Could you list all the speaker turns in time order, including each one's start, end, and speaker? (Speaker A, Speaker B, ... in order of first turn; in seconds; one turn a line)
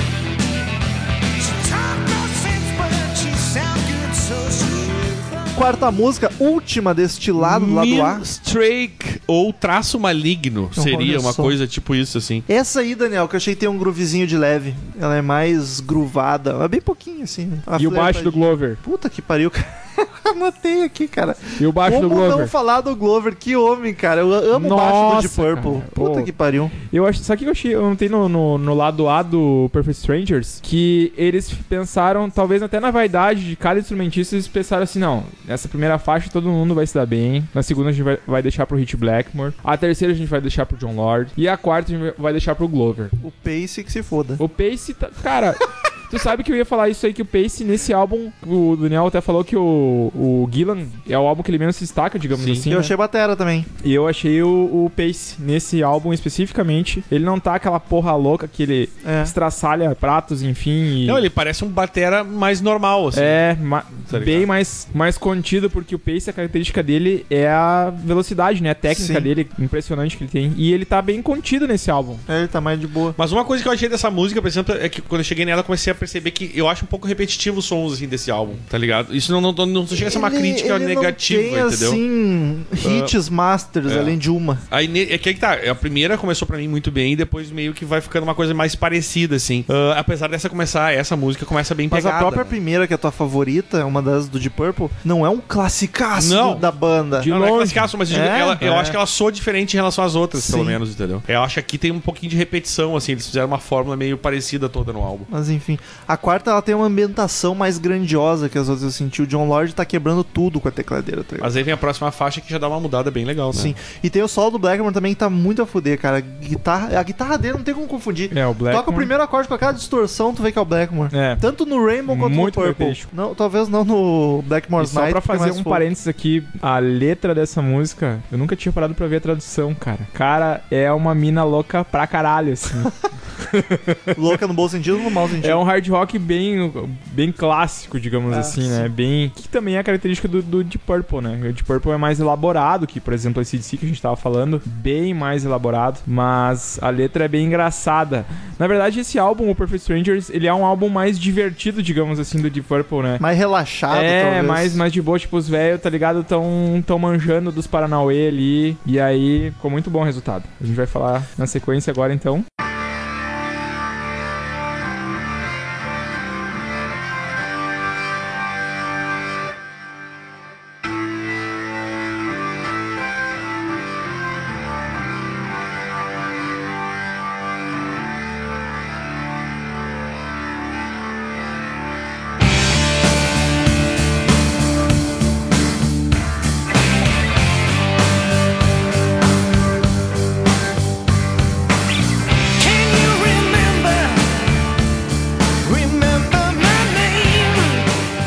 Speaker A: 1.4-5.5
Speaker B: 5.5-8.2
Speaker C: 7.4-12.4
Speaker B: 10.8-11.6
Speaker B: 12.5-26.8
Speaker D: 17.8-18.8
Speaker D: 21.6-22.5
Speaker D: 24.5-26.3
Speaker D: 26.9-43.1
Speaker B: 43.2-44.4
Speaker D: 44.4-52.9
Speaker C: 52.3-52.7
Speaker B: 52.7-53.7
Speaker D: 53.8-61.3
Speaker B: 59.0-59.4
Speaker C: 61.0-63.4
Speaker D: 63.1-72.2
Speaker C: 64.1-64.5
Speaker B: 68.9-69.3
Speaker B: 72.3-73.2
Speaker C: 73.2-82.0
Speaker B: 79.9-84.6
Speaker C: 82.8-83.1
Speaker C: 83.9-84.2
Speaker C: 84.7-92.5
Speaker B: 91.9-97.3
Speaker C: 96.2-96.7
Speaker D: 97.2-97.9
Speaker C: 97.3-105.3
Speaker B: 98.1-98.9
Speaker D: 98.6-98.9
Speaker B: 100.3-100.8
Speaker B: 105.3-111.5
Speaker C: 111.4-113.8
Speaker B: 113.5-125.9
Speaker D: 118.3-119.1
Speaker D: 121.1-121.4
Speaker D: 122.1-123.1
Speaker D: 124.8-134.2
Speaker B: 134.1-135.6
Speaker D: 135.4-153.2
Speaker B: 138.3-138.9
Speaker B: 153.2-154.8
Speaker D: 153.9-162.4
Speaker A: 192.6-194.5
Speaker A: 195.6-197.9